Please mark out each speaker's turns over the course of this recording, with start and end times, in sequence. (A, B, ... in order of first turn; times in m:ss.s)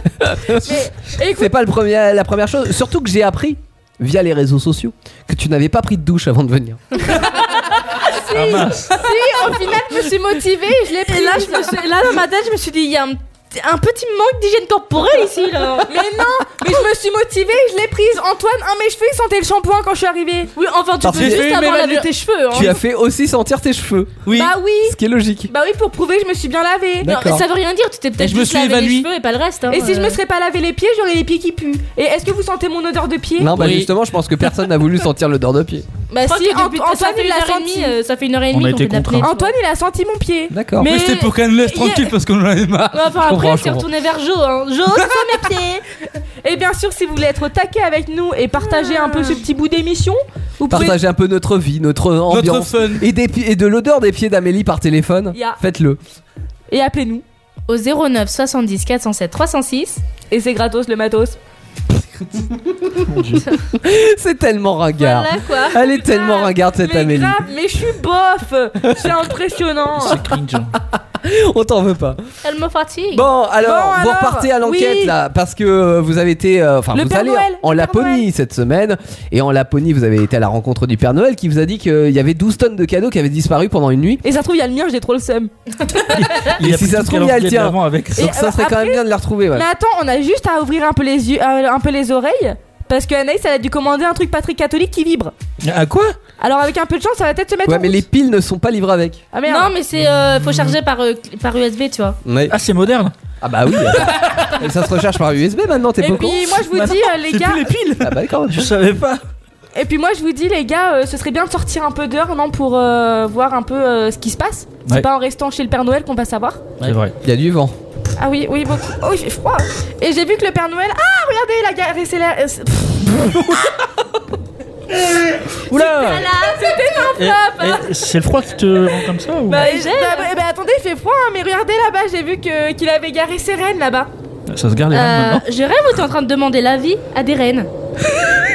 0:00.2-0:06.8 A
0:00.6-0:01.5 B
0:08.1-0:11.8 B
0:08.3-0:09.0 C
0:10.9-0:15.9 D
0:15.8-0:20.5 B
0:20.6-0:22.8 D
0:21.0-0:21.5 A
0:21.0-0:22.7 E
0:22.5-0:24.2 A
0:24.3-0:24.6 E
0:24.3-0:25.0 B
0:24.8-0:25.5 A
0:25.5-0:27.2 B
0:27.0-0:27.4 A
0:27.0-0:30.2 D
0:28.2-0:29.1 E
0:29.7-0:33.6 B
0:33.4-0:35.9 A
0:33.5-0:33.9 E
0:36.1-0:38.0 B
0:36.2-0:39.5 D
0:38.5-0:39.3 C
0:39.2-0:41.3 B
0:40.5-0:40.9 A
0:40.8-0:43.1 E
0:41.6-0:42.1 D
0:42.9-0:45.8 D
0:43.2-0:43.9 A
0:46.4-0:51.0 B
0:48.6-0:49.4 D
0:50.7-0:56.0 A
0:52.3-0:53.0 E
0:55.3-0:55.6 B
0:56.7-0:57.2 B
0:57.7-1:00.0 D
1:00.3-1:01.4 B
1:03.0-1:03.6 C
1:03.8-1:07.5 A
1:05.0-1:05.9 D
1:06.0-1:10.2 B
1:10.0-1:10.8 C
1:11.2-1:12.2 A
1:12.4-1:13.3 D
1:13.1-1:24.2 A
1:13.6-1:15.2 B
1:16.9-1:18.3 B
1:24.2-1:25.5 B
1:26.1-1:28.3 C
1:26.6-1:29.7 A
1:28.2-1:35.3 B
1:35.6-1:36.2 C
1:36.4-1:38.0 B
1:37.6-1:39.2 A
1:39.3-1:39.7 B
1:39.5-1:42.2 D
1:42.2-1:42.6 A
1:42.5-1:43.1 C
1:43.4-1:46.6 A
1:46.0-1:47.7 B
1:46.6-1:48.2 E
1:48.0-1:48.7 A
1:48.5-1:49.2 C
1:49.8-1:56.6 B
1:56.8-1:57.1 C
1:57.2-1:57.8 A
1:58.2-2:03.3 B
2:05.7-2:06.3 C
2:05.8-2:07.8 D
2:06.4-2:07.7 B
2:07.2-2:09.7 C
2:09.5-2:14.1 B
2:09.5-2:10.4 D
2:14.5-2:15.4 C
2:14.9-2:17.7 D